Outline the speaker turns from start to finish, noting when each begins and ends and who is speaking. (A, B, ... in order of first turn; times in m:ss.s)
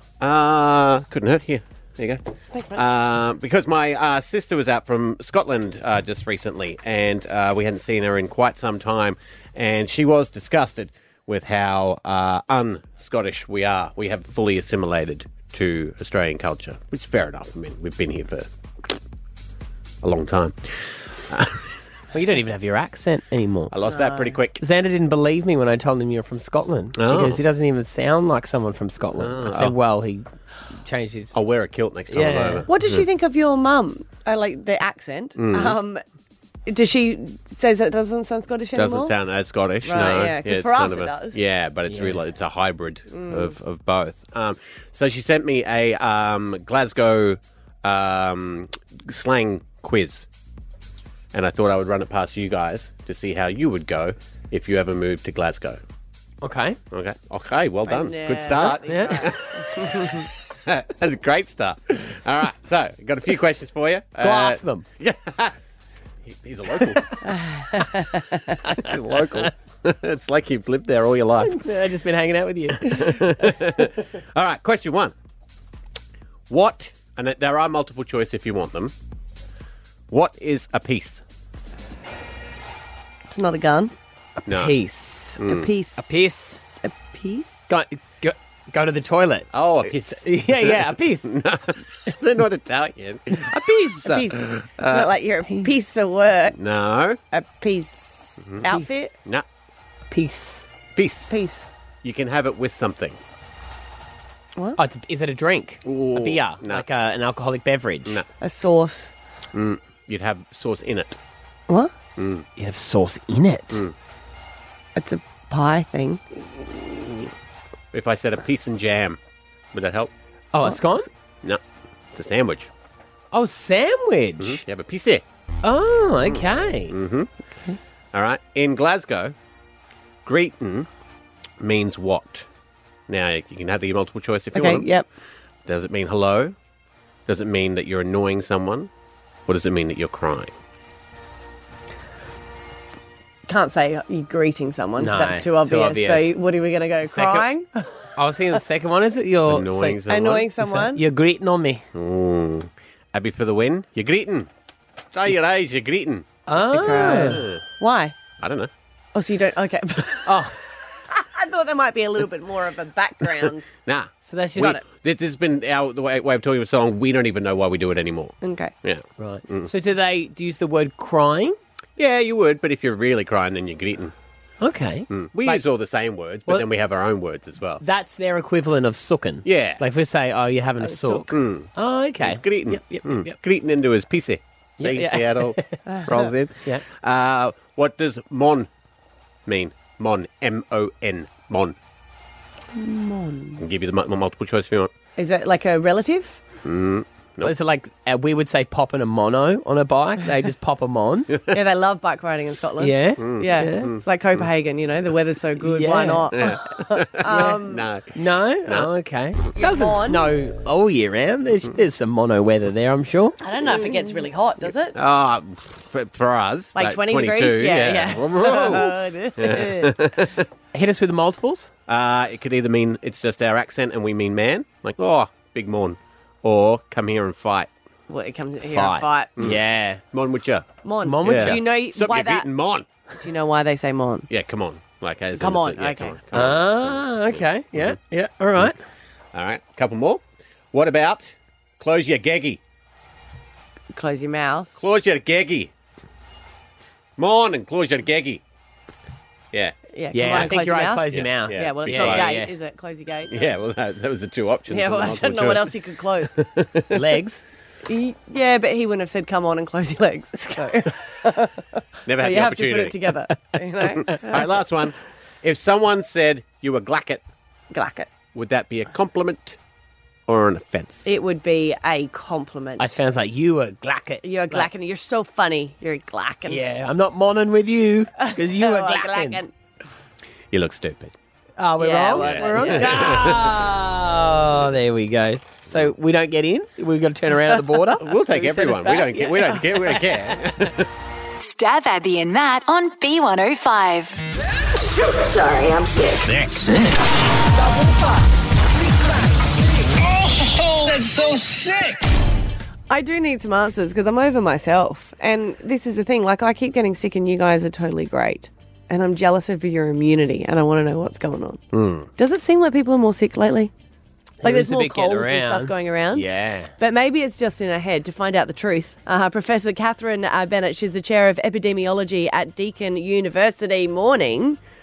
0:00.2-0:02.2 A
0:02.5-0:02.8 B
0:02.7-0:18.5 A
0:20.0-0:21.6 A
0:22.1-0:23.7 C
0:23.7-0:24.6 A
0:23.9-0:24.4 B
0:24.6-0:30.3 C
0:27.0-0:27.4 A
0:29.2-0:29.8 A
0:30.8-0:31.3 C
0:31.3-0:33.0 A
0:32.1-0:32.7 C
0:32.7-0:36.0 B
0:35.4-0:35.8 A
0:36.7-0:39.1 B
0:38.8-0:50.3 A
0:39.8-0:41.4 B
0:41.9-0:42.2 C
0:43.1-0:43.5 B
0:51.3-0:55.8 A
0:56.4-0:56.8 C
0:56.9-1:05.5 A
0:57.9-1:00.3 B
0:58.9-0:59.2 C
1:04.2-1:04.9 C
1:06.3-1:07.2 A
1:07.2-1:08.6 B
1:08.6-1:09.5 C
1:08.7-1:11.6 A
1:11.4-1:13.8 C
1:12.8-1:15.1 A
1:16.5-1:18.9 A
1:20.1-1:21.2 A
1:23.3-1:23.9 B
1:24.4-1:25.4 C
1:24.5-1:24.8 A
1:25.4-1:25.7 A
1:25.4-1:26.0 B
1:26.0-1:26.6 C
1:26.8-1:27.6 B
1:27.7-1:31.3 C
1:29.5-1:35.1 A
1:34.0-1:36.6 B
1:36.5-1:37.2 A
1:37.3-1:39.1 B
1:38.4-1:38.7 A
1:40.1-1:40.7 C
1:41.0-1:41.3 A
1:41.3-1:41.6 B
1:42.0-1:43.2 A
1:44.8-1:48.2 C
1:45.8-1:46.8 A
1:48.4-1:49.1 B
1:49.5-1:51.2 A
1:52.2-1:52.5 A
1:52.6-1:53.8 C
1:55.0-1:56.2 B
1:57.9-1:59.2 A
1:59.7-2:00.1 A
2:00.5-2:01.1 C
2:02.1-2:02.7 A
2:03.3-2:04.6 C
2:04.4-2:05.2 A
2:05.6-2:07.0 C
2:06.3-2:07.3 A
2:08.1-2:09.3 A
2:10.2-2:10.9 A
2:11.6-2:12.5 A
2:13.1-2:14.9 A
2:14.5-2:15.1 B
2:15.7-2:16.6 A
2:17.3-2:18.9 A
2:19.5-2:20.5 A
2:23.5-2:27.8 B
2:25.0-2:26.4 C
2:27.0-2:27.5 C
2:28.2-2:30.0 C
2:29.5-2:30.5 A
2:30.1-2:31.0 B
2:30.6-2:31.8 C
2:32.0-2:34.5 A
2:35.1-2:36.3 A
2:36.5-2:37.4 C
2:36.7-2:38.2 B
2:37.0-2:37.6 A
2:38.4-2:38.7 A
2:39.2-2:40.5 B
2:40.3-2:40.6 C
2:41.1-2:43.7 B
2:43.9-2:49.7 A
2:44.3-2:44.8 C
2:48.4-2:48.7 B
2:49.2-2:51.6 C
2:52.0-2:54.1 A
2:54.6-2:55.6 C
2:55.1-2:57.8 A
2:57.8-3:03.4 C
2:59.4-2:59.8 A
3:01.3-3:08.7 A
3:04.8-3:05.8 C
3:09.5-3:11.8 A
3:12.8-3:13.6 B
3:13.6-3:14.9 A
3:15.2-3:16.4 B
3:16.6-3:17.5 A
3:17.4-3:21.3 C
3:21.5-3:27.9 B
3:22.8-3:24.0 C
3:23.2-3:24.0 A
3:25.6-3:26.8 C
3:26.4-3:28.9 A
3:27.3-3:27.6 C
3:28.2-3:33.4 C
3:29.6-3:30.3 B
3:33.4-3:35.0 B
3:35.0-3:40.5 A
3:36.8-3:40.0 B
3:40.7-3:41.7 C
3:41.9-3:47.7 A
3:48.1-3:49.3 B
3:48.7-3:50.0 C
3:49.4-3:50.6 A
3:50.8-3:52.5 B
3:51.0-3:51.6 C
3:51.2-3:52.9 A
3:53.2-3:54.3 B
3:54.3-3:58.0 A
3:55.4-3:56.2 B
3:56.3-3:58.8 C
3:59.3-4:02.6 A
4:03.9-4:04.7 B
4:04.8-4:05.7 A
4:07.2-4:08.4 A
4:09.5-4:10.5 A
4:09.9-4:13.4 B
4:10.1-4:12.5 C
4:11.1-4:12.4 A
4:13.3-4:15.8 A
4:14.7-4:16.4 B
4:16.4-4:17.0 A
4:16.9-4:17.4 C
4:17.9-4:21.6 B
4:22.1-4:23.1 A
4:22.2-4:24.5 B
4:24.0-4:27.2 A
4:27.7-4:28.1 B
4:28.3-4:29.6 A
4:30.3-4:31.1 A
4:31.0-4:32.9 B
4:32.8-4:34.7 C
4:34.2-4:36.6 B
4:36.5-4:39.4 C
4:38.2-4:39.5 B
4:40.5-4:41.1 A
4:41.6-4:50.4 C
4:41.8-4:43.3 B
4:42.2-4:43.5 A
4:48.0-4:50.9 A
4:51.4-4:54.2 D
4:55.1-4:56.0 B
4:56.0-4:56.9 E
5:00.0-5:02.1 E
5:02.9-5:11.6 B
5:11.7-5:12.1 A
5:12.2-5:13.7 B
5:14.4-5:16.7 C
5:14.4-5:16.3 B
5:16.8-5:24.6 B